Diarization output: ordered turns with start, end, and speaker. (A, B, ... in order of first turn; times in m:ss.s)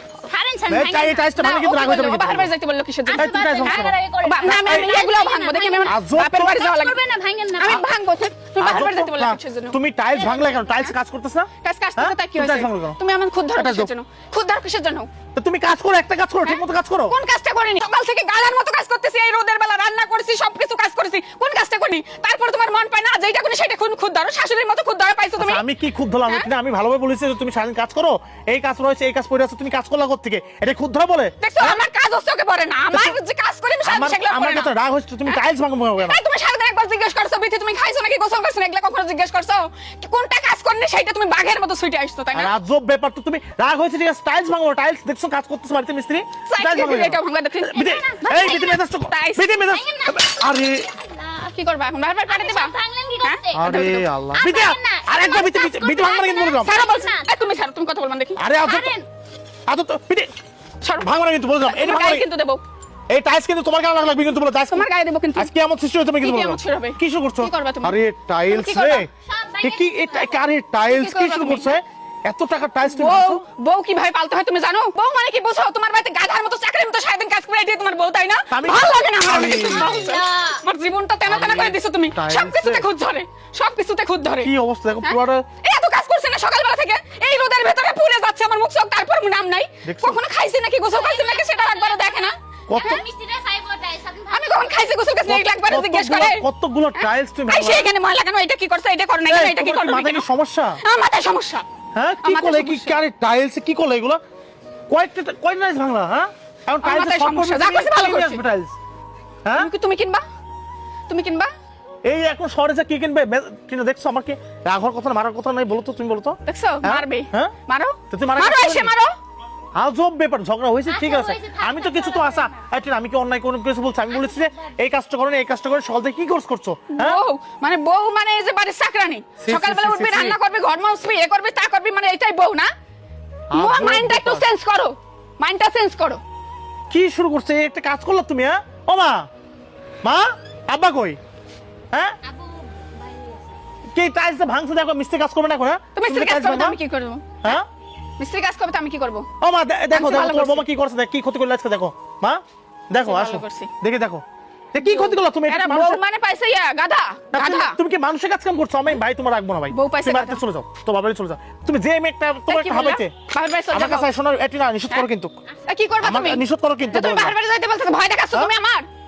0:00.3-0:01.3 A
0:00.7-0:02.5 B
0:01.3-0:07.0 C
0:03.1-0:07.9 A
0:03.2-0:05.1 B
0:05.8-0:06.6 B
0:07.6-0:09.8 C
0:08.6-0:13.0 B
0:10.1-0:10.5 A
0:11.6-0:15.1 C
0:13.5-0:13.9 B
0:15.3-0:17.2 B
0:16.4-0:25.6 C
0:25.4-0:31.8 B
0:31.4-0:34.7 C
0:32.9-0:33.2 B
0:33.8-0:36.2 B
0:36.0-0:42.5 C
0:42.3-0:50.9 B
0:46.5-0:49.5 C
0:49.7-0:50.3 A
0:51.0-0:51.4 A
0:51.4-0:54.1 C
0:52.3-0:57.3 A
0:53.5-0:56.7 B
0:56.6-0:58.4 C
0:58.4-0:58.9 B
0:58.6-0:59.1 A
0:59.7-1:00.3 B
1:00.8-1:02.6 C
1:01.0-1:02.3 B
1:03.1-1:13.4 B
1:04.7-1:05.5 C
1:06.2-1:09.1 C
1:09.2-1:10.5 A
1:10.9-1:11.8 C
1:12.8-1:24.5 C
1:18.5-1:20.0 B
1:19.5-1:20.6 A
1:21.3-1:22.9 B
1:24.4-1:25.5 B
1:25.0-1:33.0 C
1:29.8-1:30.2 B
1:30.9-1:34.8 A
1:32.7-1:33.0 B
1:34.3-1:36.4 C
1:35.2-1:37.9 B
1:37.0-1:40.3 C
1:39.3-1:40.8 B
1:40.8-1:41.6 C
1:42.0-1:44.2 B
1:42.2-1:43.0 C
1:44.9-1:48.8 B
1:46.8-1:48.4 C
1:49.4-1:49.7 B
1:49.6-1:50.2 C
1:51.1-1:51.5 C
1:52.0-1:57.5 B
1:56.5-1:59.2 C
1:58.1-1:58.9 B
1:59.8-2:07.2 B
2:00.9-2:02.6 A
2:04.3-2:04.6 A
2:06.9-2:12.7 C
2:09.4-2:10.4 B
2:13.5-2:14.5 B
2:13.5-2:16.2 C
2:16.9-2:19.3 B
2:20.0-2:21.2 B
2:21.9-2:22.2 B
2:22.2-2:23.6 A
2:23.9-2:26.8 B
2:26.0-2:27.6 C
2:27.4-2:27.7 B
2:28.2-2:29.3 C
2:29.4-2:36.0 B
2:29.9-2:30.7 C
2:33.0-2:33.7 C
2:34.8-2:37.8 C
2:37.3-2:43.1 B
2:39.7-2:40.4 C
2:42.5-2:44.1 C
2:43.7-2:45.3 B
2:45.7-2:48.9 C
2:46.0-2:47.4 B